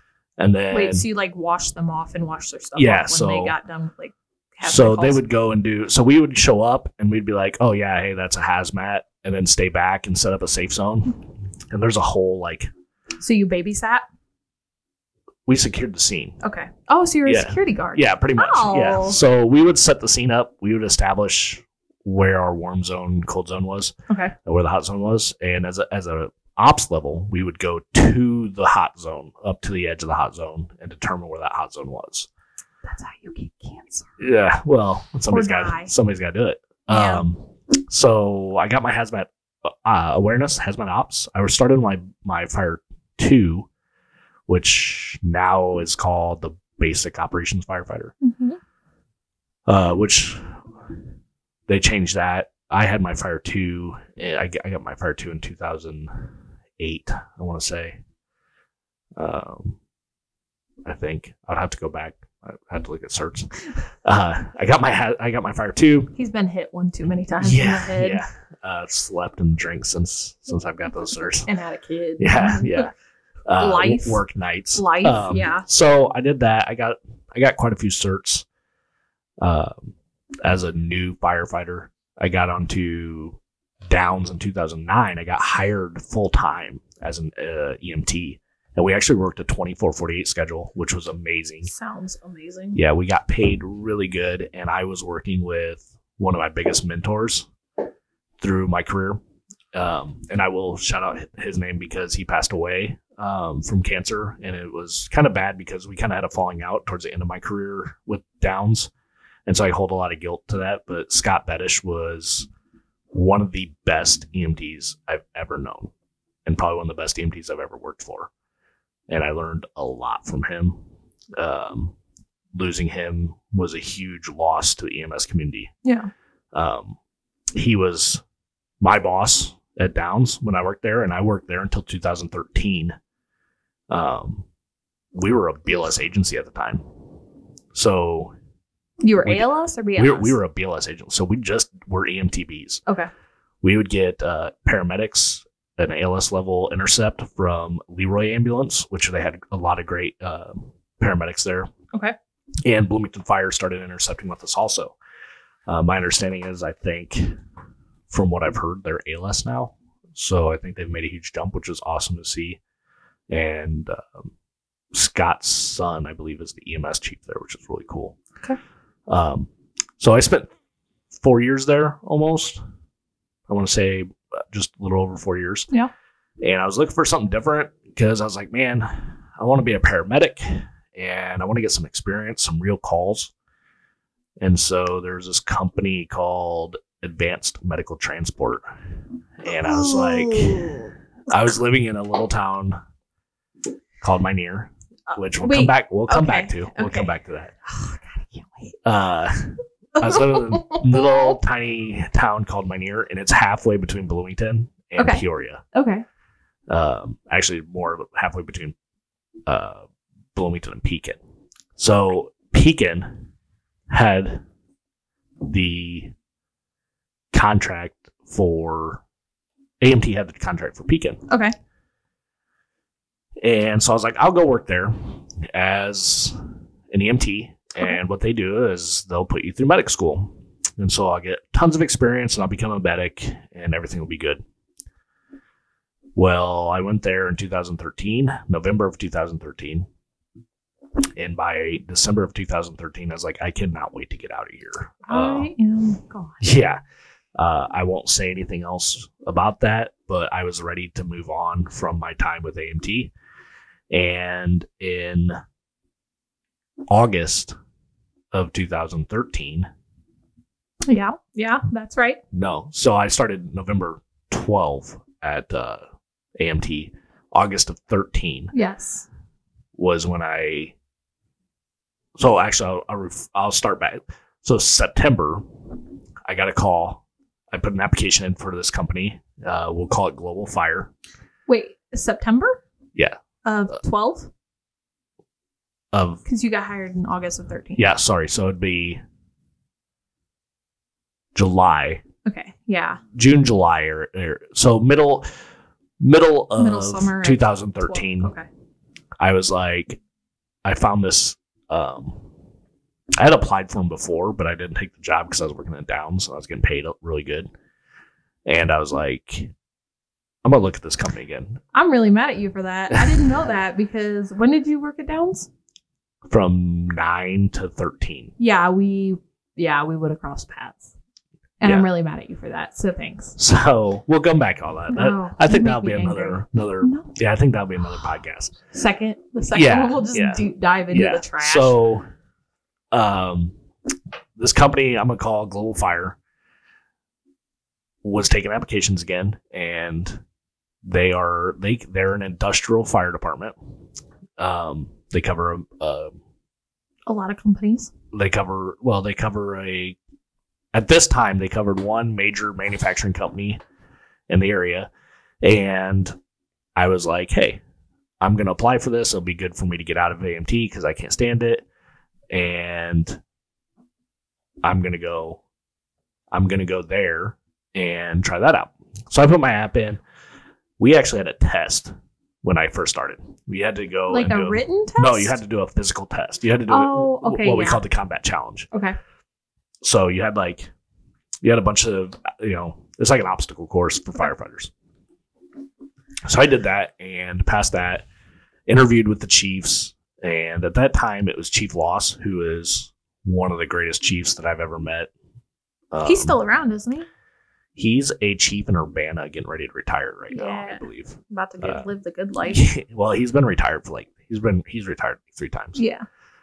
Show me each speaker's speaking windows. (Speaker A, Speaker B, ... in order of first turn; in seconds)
Speaker A: 0.4-1.1, 2.8-3.5, 4.6-12.7, 15.5-16.4, 17.2-32.3, 34.2-43.7, 44.5-48.1, 49.7-50.5, 51.7-58.0, 59.2-59.8, 60.9-66.1, 67.4-71.5, 72.2-72.9, 73.5-78.5, 79.4-91.7, 92.8-97.5, 98.4-99.2, 99.7-108.9, 109.5-112.5, 113.1-115.9, 116.5-118.3, 119.1-120.8, 121.4-122.0, 122.5-125.7, 126.5-127.0, 127.5-128.2, 128.8-133.0, 133.9-134.4, 135.2-136.8, 137.7-138.3, 139.2-142.8, 143.6-151.7, 152.6-154.9, 155.7-157.3, 158.1-162.6, 163.3-164.3, 164.9-168.2, 169.1-170.5, 171.2-172.6, 173.5-175.7, 176.4-183.3, 184.4-188.7, 189.4-192.8, 194.0-197.5, 198.8-205.6, 206.7-208.8, 209.5-209.8, 210.3-211.2, 211.8-213.2, 213.9-214.4, 215.4-216.1, 217.3-219.0, 219.8-221.2, 223.4-226.4, 226.9-234.4, 236.2-239.9, 241.2-245.5, 246.4-246.8, 247.4-253.1, 253.9-255.4, 256.9-257.5, 258.3-259.7, 262.3-265.8, 266.4-268.5, 269.8-270.8, 272.2-275.5, 276.3-280.9, 285.9-286.2, 287.8-289.0, 291.4-292.0, 293.1-295.3, 296.0-298.3, 299.2-300.0, 300.6-302.3, 303.2-307.5, 308.5-309.5, 310.4-311.6, 312.9-313.3, 316.3-318.3, 321.6-321.9, 323.4-328.6, 329.5-332.1, 332.9-333.5, 334.4-336.2, 338.0-340.2, 340.8-343.6, 344.4-346.2, 348.1-350.0, 350.7-353.6, 354.3-354.9, 355.4-356.2, 356.8-357.6, 358.2-361.6, 362.3-363.2, 364.6-365.4, 366.3-370.0, 370.8-371.9, 372.4-378.7, 379.8-380.7, 381.4-384.7, 386.2-388.1, 388.7-395.1, 395.9-396.4, 397.8-401.9, 402.5-405.8
Speaker B: 0.7-5.2, 13.2-14.0, 16.4-19.2, 24.1-24.3, 32.9-34.1, 35.3-35.9, 36.9-37.3, 48.2-48.6, 66.1-68.2, 71.5-72.9, 73.6-74.2, 74.8-75.7, 91.7-92.8, 125.8-126.1, 139.0-140.4, 189.5-190.9, 195.1-197.1, 197.7-198.8, 200.0-201.0, 205.0-206.1, 221.3-221.5, 245.1-246.4, 260.9-262.2, 268.5-269.1, 281.5-282.6, 283.4-284.3, 286.2-287.9, 292.2-293.0, 296.6-298.5, 311.7-315.5, 318.4-320.9, 321.6-323.4, 324.9-327.1, 328.7-331.8, 347.1-347.9, 374.1-375.4, 376.7-377.8, 378.7-379.0, 396.0-397.1, 400.3-402.7, 405.8-406.1